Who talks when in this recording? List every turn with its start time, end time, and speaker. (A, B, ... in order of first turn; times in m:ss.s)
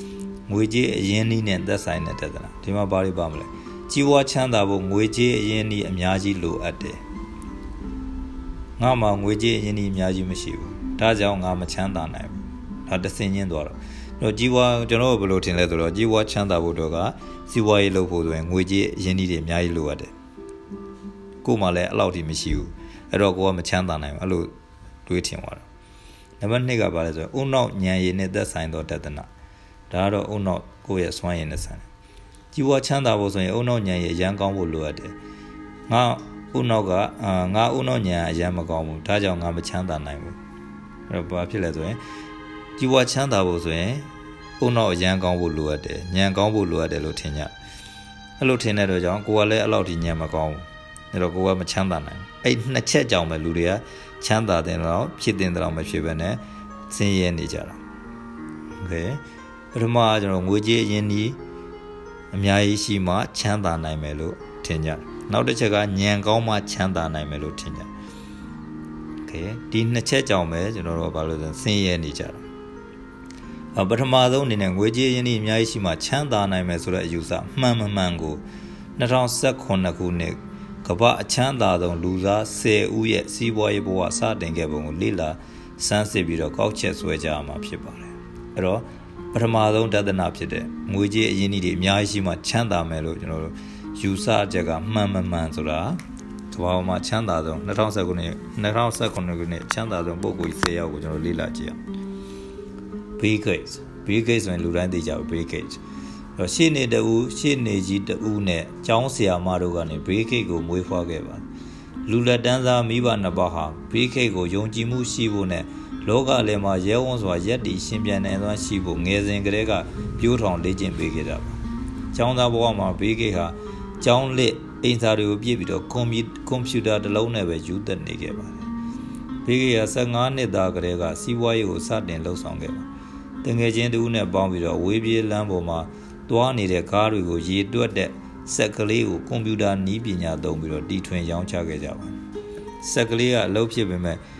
0:00.5-0:07.0 A
0:08.8-0:20.1 A
0:21.4-0:24.5 A
0:25.0-0:25.7 A
0:26.4-0:29.3 A
0:29.9-0:31.8 A
0:32.5-0:35.2 A
0:35.9-0:40.4 A
0:41.1-0:42.0 A
0:42.8-0:44.1 A
0:44.6-0:47.5 A
0:48.4-0:57.8 A
0:58.8-0:59.2 A
0:59.7-1:01.4 A
1:02.3-1:07.9 A
1:09.2-1:12.4 A
1:13.7-1:18.4 A
1:19.0-1:36.0 A
1:36.5-1:41.8 A
1:43.2-1:45.8 A
1:46.4-1:51.4 A
1:52.0-2:01.6 A
2:02.1-2:08.6 A
2:09.4-2:12.8 A
2:13.4-2:22.2 A
2:22.8-2:24.2 A